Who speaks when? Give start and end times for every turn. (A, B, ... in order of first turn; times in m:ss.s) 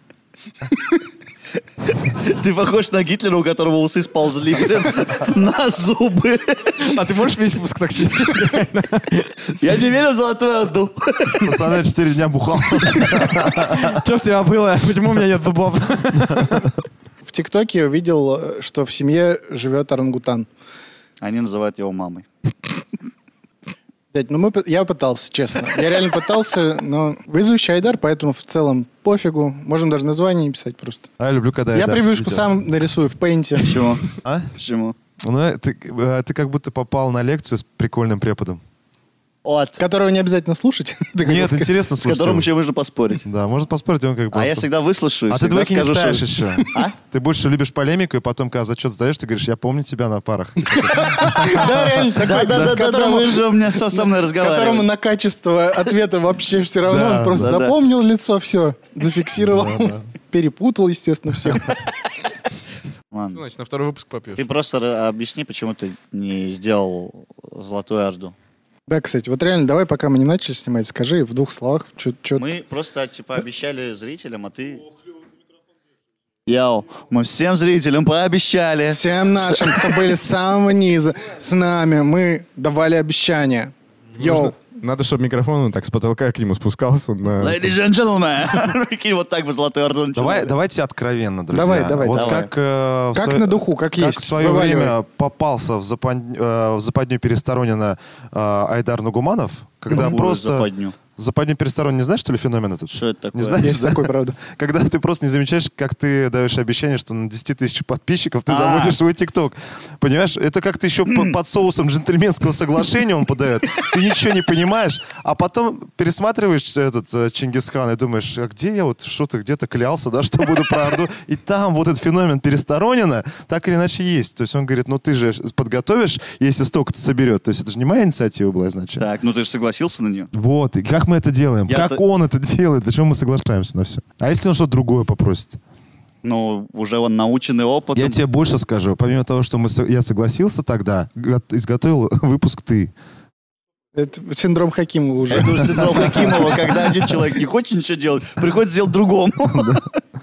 0:01.9-0:06.8 A
0:06.8-0:09.3 B
0:09.6-0:11.6 A
0:11.4-0:14.0 C
0:13.0-0:16.8 B
0:16.3-0:16.6 C
0:17.2-0:20.5 D
0:21.2-0:22.3 A
0:24.1-0:31.1 D
0:31.2-0:32.6 C
0:31.7-0:34.0 D
0:33.6-0:35.0 A
0:34.2-0:34.5 C
0:35.2-0:38.6 C
0:39.4-0:39.8 A
0:39.8-0:41.8 D
0:41.2-0:42.5 C
0:42.0-0:43.2 A
0:43.2-0:44.7 C
0:44.3-0:46.9 A
0:45.3-0:52.8 C
0:50.8-1:01.8 D
0:50.9-0:54.9 A
0:56.9-0:57.6 C
0:57.4-0:57.7 A
0:59.4-1:00.1 C
1:03.1-1:03.4 A
1:03.3-1:04.4 B
1:04.4-1:08.3 A
1:08.9-1:12.4 D
1:12.4-1:14.9 A
1:16.5-1:20.1 A
1:18.9-1:24.6 D
1:24.2-1:27.7 B
1:27.4-1:30.5 A
1:30.1-2:09.1 C
1:31.5-1:32.4 D
1:32.1-1:32.5 A
1:33.1-1:34.9 D
1:39.9-1:41.0 A
1:42.9-1:43.7 A
1:43.6-1:44.4 D
1:48.5-1:49.0 A
2:09.0-2:10.3 A
2:10.3-2:15.6 C
2:11.7-2:12.0 A
2:16.2-2:18.2 A
2:17.9-2:22.9 C
2:23.9-2:26.4 D
2:25.3-2:29.9 A
2:25.4-2:27.1 C
2:29.5-2:29.8 C